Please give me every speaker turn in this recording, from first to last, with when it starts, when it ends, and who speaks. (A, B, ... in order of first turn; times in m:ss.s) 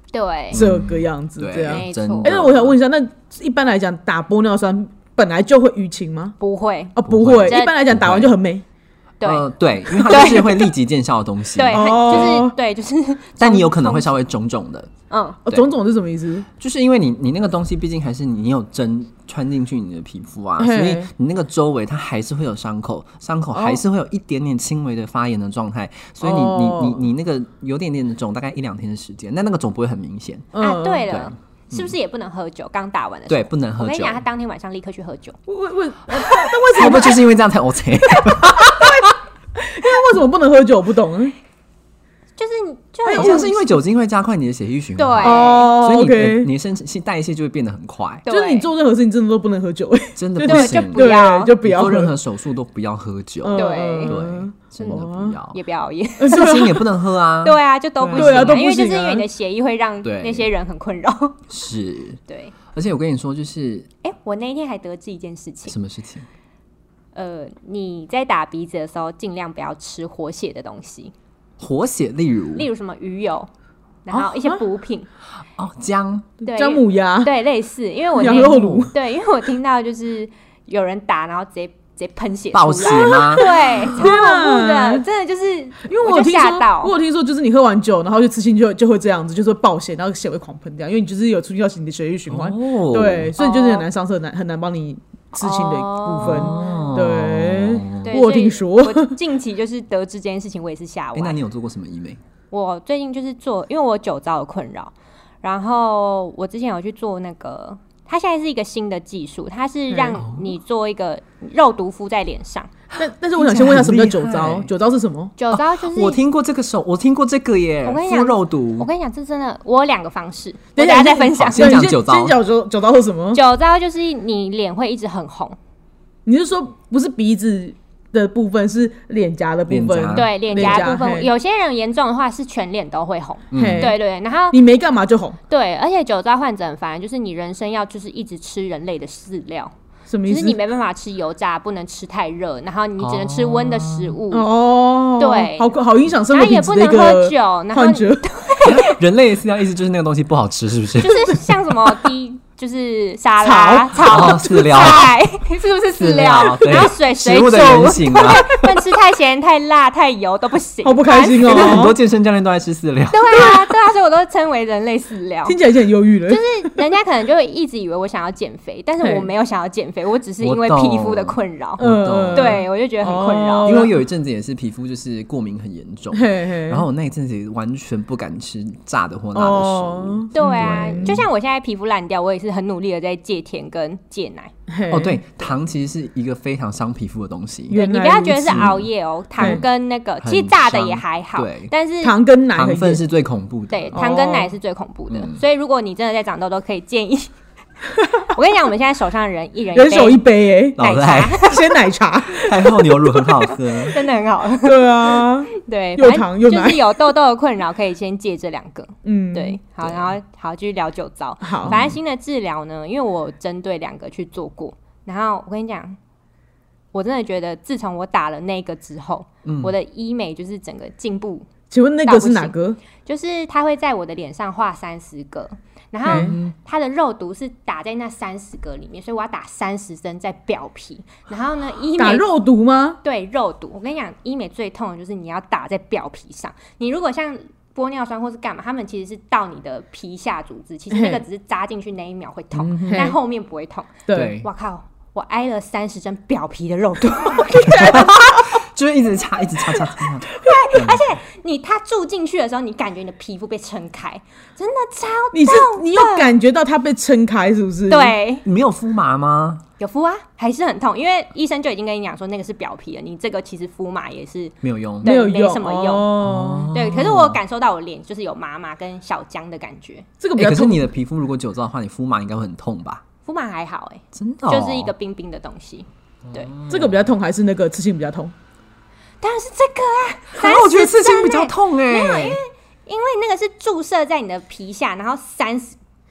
0:00.1-0:00.6 A
0:00.5-0:02.8 B
0:00.5-0:06.4 C
0:01.7-0:02.3 A
0:06.4-0:06.9 A
0:06.9-0:08.6 C
0:07.0-0:08.3 B
0:07.4-0:07.7 A
0:09.2-0:10.7 A
0:09.2-0:12.4 B
0:10.1-0:10.4 C
0:11.6-0:14.1 A
0:11.7-0:12.6 C
0:13.4-0:14.9 B
0:15.1-0:15.4 A
0:15.4-0:16.5 C
0:16.6-0:30.5 B
0:20.6-0:21.1 C
0:23.5-0:23.8 C
0:26.2-0:27.0 C
0:30.5-0:31.1 C
0:30.6-0:35.4 A
0:31.0-0:31.9 B
0:33.3-0:34.2 B
0:35.5-0:37.3 C
0:36.7-0:39.1 B
0:38.4-0:41.3 C
0:42.4-0:43.6 A
0:43.0-0:43.5 C
0:43.1-0:48.2 B
0:45.0-0:45.7 A
0:45.2-0:46.5 C
0:48.2-0:48.7 A
0:48.3-0:52.1 C
0:50.2-0:51.1 B
0:50.4-0:51.5 A
0:51.6-0:55.6 B
0:53.4-0:55.4 C
0:53.5-0:54.2 A
0:55.5-0:56.5 A
0:56.2-0:56.9 C
0:56.3-0:58.6 B
0:57.4-1:01.4 A
0:58.1-0:59.2 C
1:00.0-1:00.5 B
1:01.5-1:02.2 B
1:02.3-1:02.5 A
1:02.7-1:03.9 B
1:04.0-1:05.8 A
1:05.7-1:06.3 B
1:07.1-1:11.1 A
1:11.6-1:12.7 B
1:12.6-1:13.5 A
1:14.0-1:15.1 A
1:14.2-1:14.6 C
1:15.6-1:16.4 B
1:16.4-1:26.9 A
1:16.5-1:17.3 C
1:18.2-1:18.9 C
1:18.4-1:18.9 B
1:22.5-1:23.9 B
1:22.9-1:25.0 C
1:25.9-1:39.2 C
1:32.3-1:33.3 B
1:33.4-1:33.8 A
1:35.3-1:36.9 A
1:36.2-1:38.1 B
1:38.0-1:41.4 A
1:41.1-1:42.2 B
1:42.5-1:52.7 A
1:49.9-1:50.2 C
1:50.2-1:50.5 B
1:53.0-1:54.7 B
1:53.0-1:55.3 C
1:55.4-1:56.2 A
1:55.5-1:58.9 B
1:57.8-2:01.8 A
2:00.8-2:03.4 C
2:01.4-2:02.4 B
2:03.3-2:05.6 A
2:06.2-2:11.3 C
2:09.7-2:10.9 B
2:10.1-2:14.6 A
2:13.5-2:13.9 B
2:13.5-2:14.0 C
2:14.5-2:15.4 C
2:15.5-2:19.7 A
2:20.1-2:20.6 C
2:20.2-2:24.5 A
2:23.0-2:24.2 B
2:24.3-2:28.3 C
2:25.2-2:25.7 A
2:26.3-2:29.0 A
2:28.6-2:31.4 B
2:31.0-2:41.9 A
2:33.4-2:34.9 C
2:34.0-2:35.1 B
2:35.9-2:38.7 B
2:40.8-2:42.0 C
2:41.4-2:43.6 B
2:43.1-2:45.6 A
2:45.4-2:46.8 C
2:46.3-2:53.9 A
2:49.0-2:49.3 C
2:50.4-2:52.6 B
2:51.8-2:54.0 C
2:53.6-3:01.2 B
2:56.1-2:56.8 C
2:59.3-3:01.2 C
3:00.3-3:04.5 A
3:04.7-3:05.2 C
3:04.9-3:07.8 B
3:07.7-3:08.7 C
3:07.7-3:12.1 A
3:08.5-3:08.8 B
3:09.4-3:09.6 B
3:10.2-3:11.7 B
3:12.0-3:13.0 C
3:12.5-3:14.1 B
3:13.7-3:17.3 A
3:13.9-3:14.5 C
3:15.1-3:15.4 B
3:18.3-3:20.2 A
3:19.7-3:20.8 C
3:20.8-3:21.4 B
3:20.8-3:21.7 A
3:21.4-3:23.1 C
3:22.4-3:24.0 B
3:23.7-3:36.0 A
3:24.6-3:26.8 C
3:29.0-3:29.6 C
3:29.8-3:30.1 B
3:31.4-3:31.7 C
3:31.6-3:32.0 B
3:36.9-3:41.5 A
3:39.4-3:39.7 B
3:41.7-3:42.8 C
3:42.0-3:52.2 A
3:46.0-3:46.3 C
3:46.0-3:46.5 B
3:52.0-3:53.0 C
3:53.0-4:08.4 A
4:00.9-4:01.2 C
4:02.6-4:03.2 C
4:04.1-4:04.4 C
4:04.1-4:04.5 B
4:07.4-4:11.0 B
4:10.4-4:16.3 A
4:15.3-4:18.1 C
4:17.9-4:18.4 A
4:18.4-4:19.6 B
4:19.8-4:26.1 A
4:24.6-4:25.1 B
4:25.0-4:26.7 C
4:26.2-4:27.4 B
4:26.7-4:30.1 A
4:30.2-4:30.9 C
4:30.4-4:33.0 B
4:33.2-4:36.5 A
4:34.1-4:34.9 B
4:36.2-4:37.1 B
4:36.7-4:38.3 C
4:39.2-4:45.8 A
4:40.3-4:42.4 B